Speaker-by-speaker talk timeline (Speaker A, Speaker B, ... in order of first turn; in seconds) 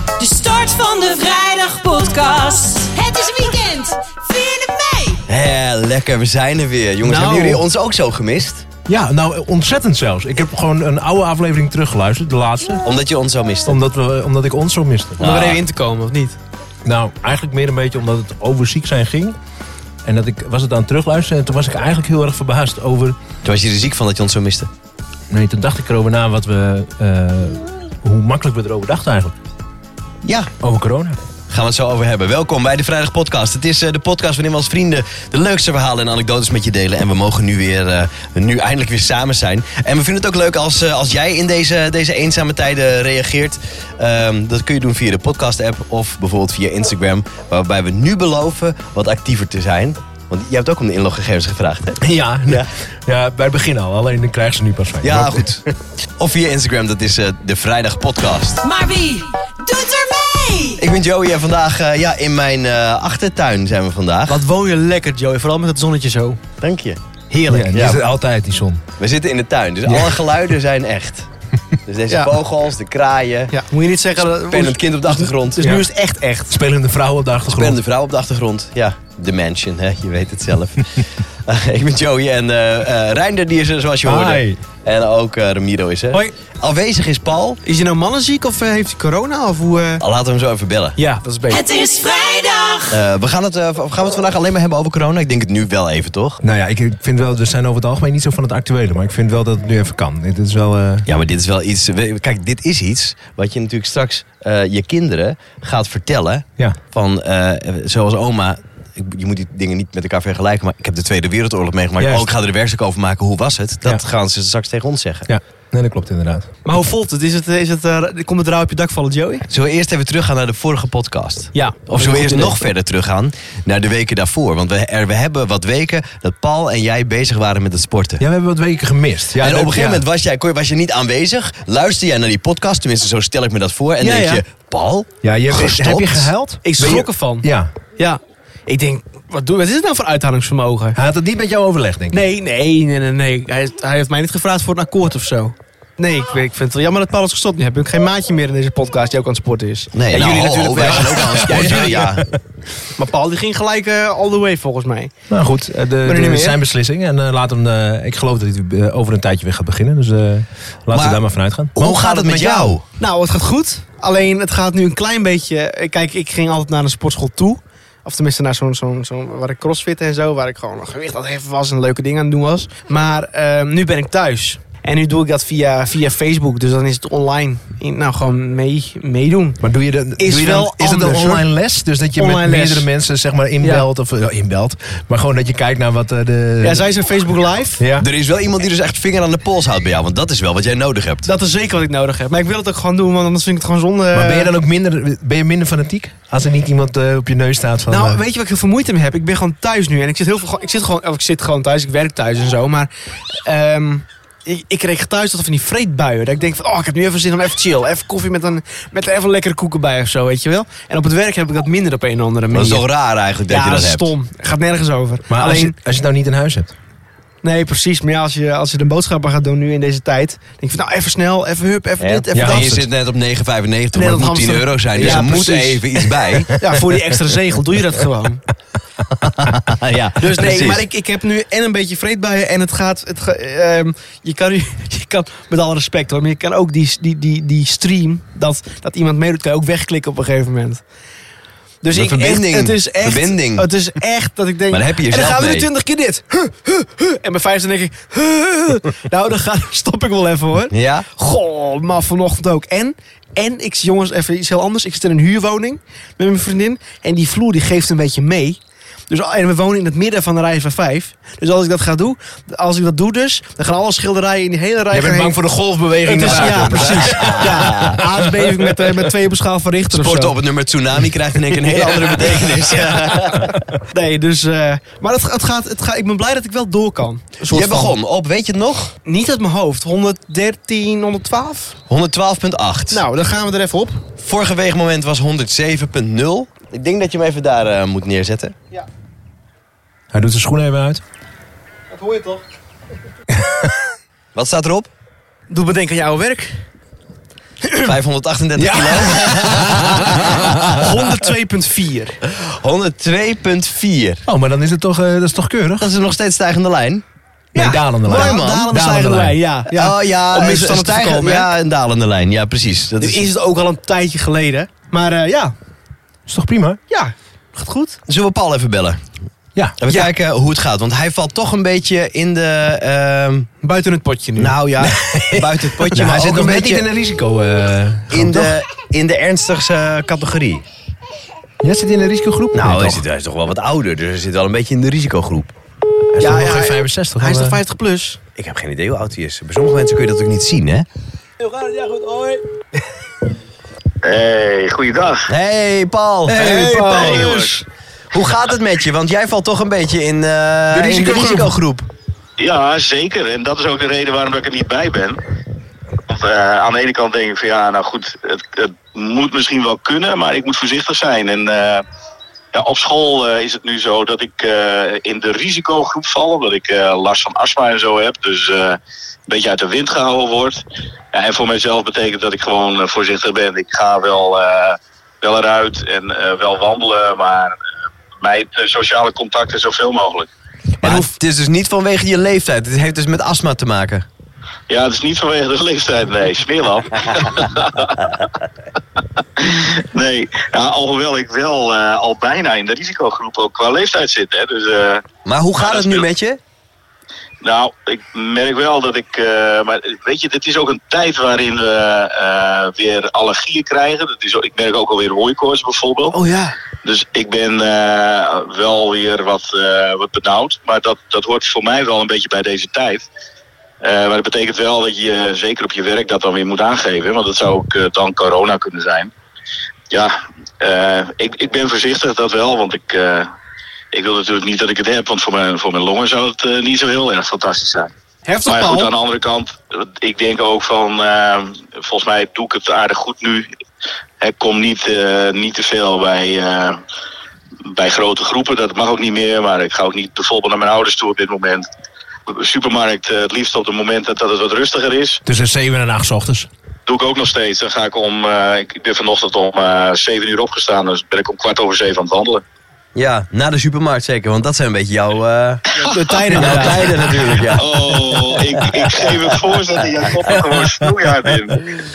Speaker A: 0.2-5.2, 58.6-60.8, 91.5-93.0
Speaker B: 5.3-8.7, 12.8-13.8, 15.2-15.6, 23.4-24.7, 30.2-30.5, 31.5-52.7, 55.0-58.6, 60.8-64.4, 66.6-67.0, 67.7-68.0, 69.0-71.3, 71.9-73.5, 74.5-75.8, 77.5-87.6, 90.0-91.0, 92.9-96.4, 101.1-115.3, 119.5-128.2, 129.3-135.1, 149.9-152.3, 160.9-161.2, 161.8-162.8, 188.0-191.3, 212.5-214.1, 222.0-226.6, 229.3-230.8, 241.9-243.7, 244.7-245.7, 250.7-251.1, 266.2-268.0, 269.9-273.5, 277.5-278.9, 281.9-283.0, 284.2-288.6, 294.3-294.9, 297.8-300.9, 302.3-304.2, 305.8-307.0, 308.0-308.8, 309.7-313.3, 318.1-319.0, 319.8-323.5, 324.4-326.9, 328.1-330.6, 332.5-335.5, 338.4-340.9, 345.3-347.2, 348.1-351.9, 380.8-384.1, 395.2-396.4, 452.9-455.7, 456.3-458.6
Speaker C: 7.0-7.7, 15.2-16.4, 64.3-66.4, 67.3-67.8, 69.9-70.1, 72.1-72.3, 73.5-76.5, 87.6-90.0, 91.0-91.6, 116.7-119.5, 121.5-122.6, 134.0-134.4, 135.5-137.5, 138.0-141.0, 142.1-151.2, 152.9-155.1, 156.0-156.6, 161.8-179.6, 180.2-181.5, 182.2-182.9, 183.6-183.9, 186.6-187.8, 191.2-194.5, 197.9-212.9, 213.5-215.8, 217.4-222.8, 223.9-228.4, 230.2-240.8, 241.8-258.6, 259.1-265.4, 266.1-270.4, 271.6-278.0, 279.1-281.8, 282.9-284.0, 291.9-292.4, 295.5-296.6, 297.6-297.9, 300.6-302.2, 307.5-311.6, 313.0-315.5, 316.9-318.0, 323.6-324.6, 336.2-338.2, 341.4-342.4, 346.3-347.6, 380.8-381.1, 406.1-406.6, 428.3-428.9, 455.8-457.3
Speaker D: 8.9-12.9, 13.7-15.3, 16.9-19.4, 20.0-23.2, 25.3-29.4, 30.6-31.2, 52.0-55.6, 67.5-68.8, 75.6-75.9, 76.5-77.8, 84.0-84.6, 96.4-101.1, 112.0-112.3, 115.3-116.5, 128.2-130.0, 135.2-137.7, 140.9-142.3, 150.1-152.3, 155.3-161.9, 179.6-186.9, 187.8-188.1, 194.1-198.2, 215.3-216.7, 222.3-222.9, 224.9-225.4, 264.9-268.9, 290.1-291.0, 293.3-293.7, 298.6-300.7, 304.3-305.9, 307.6-309.4, 316.3-316.8, 319.6-320.1, 324.8-328.6, 331.6-333.0, 336.1-337.6, 346.3-347.0, 350.7-351.6, 445.3-446.5, 456.3-456.9, 460.4-461.3
Speaker E: 344.0-345.3, 346.8-347.6, 352.4-355.2, 356.1-361.8, 362.5-377.6, 378.2-380.3, 384.7-388.0, 389.4-395.0, 395.6-396.1, 397.4-406.2, 406.8-413.1, 413.8-419.1, 419.9-423.3, 423.9-427.9, 428.5-433.5, 434.2-436.8, 437.7-441.7, 442.3-445.2, 446.9-452.4, 457.5-461.8